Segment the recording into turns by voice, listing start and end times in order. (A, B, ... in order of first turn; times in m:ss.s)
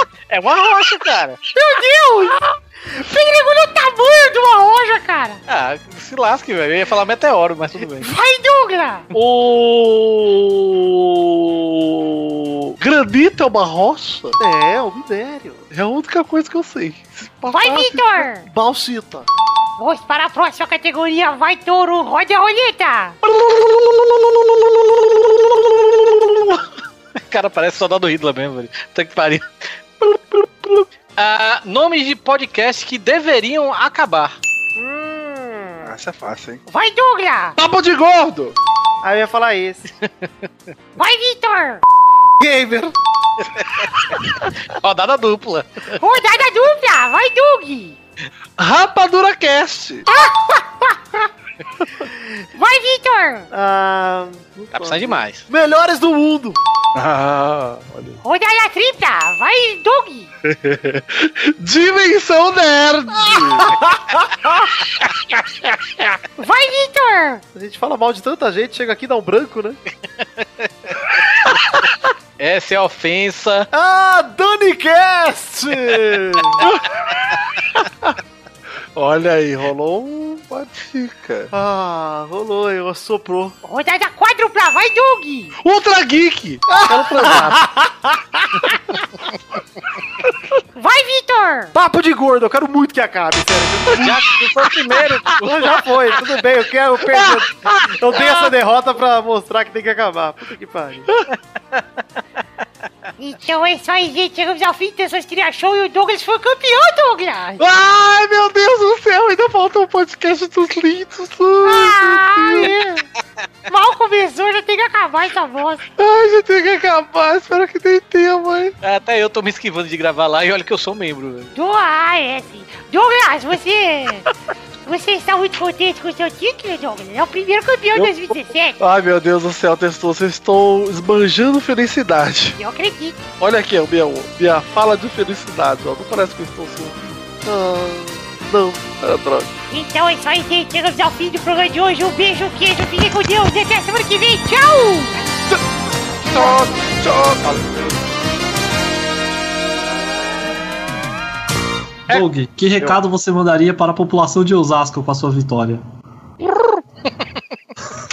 0:00.3-0:01.5 A
0:01.5-0:05.4 B
0:05.5-0:08.1 A
0:08.0-0:09.1 B
0:09.1-0:14.4 C
0:14.4-0:15.6 D
0:15.7-0:18.2 C
0:17.5-0:18.5 B
0:18.5-0:19.3 D
0:19.8-0:23.2 B
0:27.3-0:29.5 A
0:30.5-0:30.8 C
0:31.2-0:34.4 A
0:34.8-0:35.9 D
0:35.8-0:36.6 C
0:36.7-0:37.6 B
0:37.6-0:38.6 C
0:39.0-0:39.8 D
0:41.0-0:41.8 B
0:42.4-0:42.9 D
0:44.8-0:46.0 A
0:46.0-0:48.0 B
0:48.6-0:50.1 C
0:50.1-0:51.0 B
0:52.6-0:53.5 B
0:53.5-0:56.6 D
0:54.7-0:55.4 A
0:57.0-0:58.2 C
0:58.2-1:00.3 B
1:00.5-1:03.8 C
1:05.3-1:06.1 C
1:06.4-1:07.4 B
1:07.6-1:09.8 D
1:12.4-1:13.7 A
1:13.7-1:16.6 D
1:19.0-1:21.5 C
1:21.5-1:23.6 D
1:23.6-1:25.6 B
1:25.6-1:27.6 C
1:26.7-1:27.9 D
1:30.8-1:31.7 B
1:31.7-1:34.4 D
1:34.0-1:35.2 A
1:34.6-1:35.4 C
1:35.3-1:41.1 D
1:37.2-1:37.9 C
1:41.1-1:41.3 C
1:43.2-1:47.6 B
1:47.6-1:52.7 C
1:51.6-1:53.1 B
1:53.7-1:55.8 B
1:56.0-1:58.8 C
1:58.8-2:01.5 A
2:01.5-2:04.3 B
2:04.9-2:08.8 B
2:08.0-2:12.6 C
2:12.6-2:13.3 B
2:13.4-2:17.0 C
2:17.5-2:18.8 D
2:19.0-2:19.6 C
2:19.7-2:25.2 B
2:26.2-2:27.6 C
2:32.1-2:35.8 E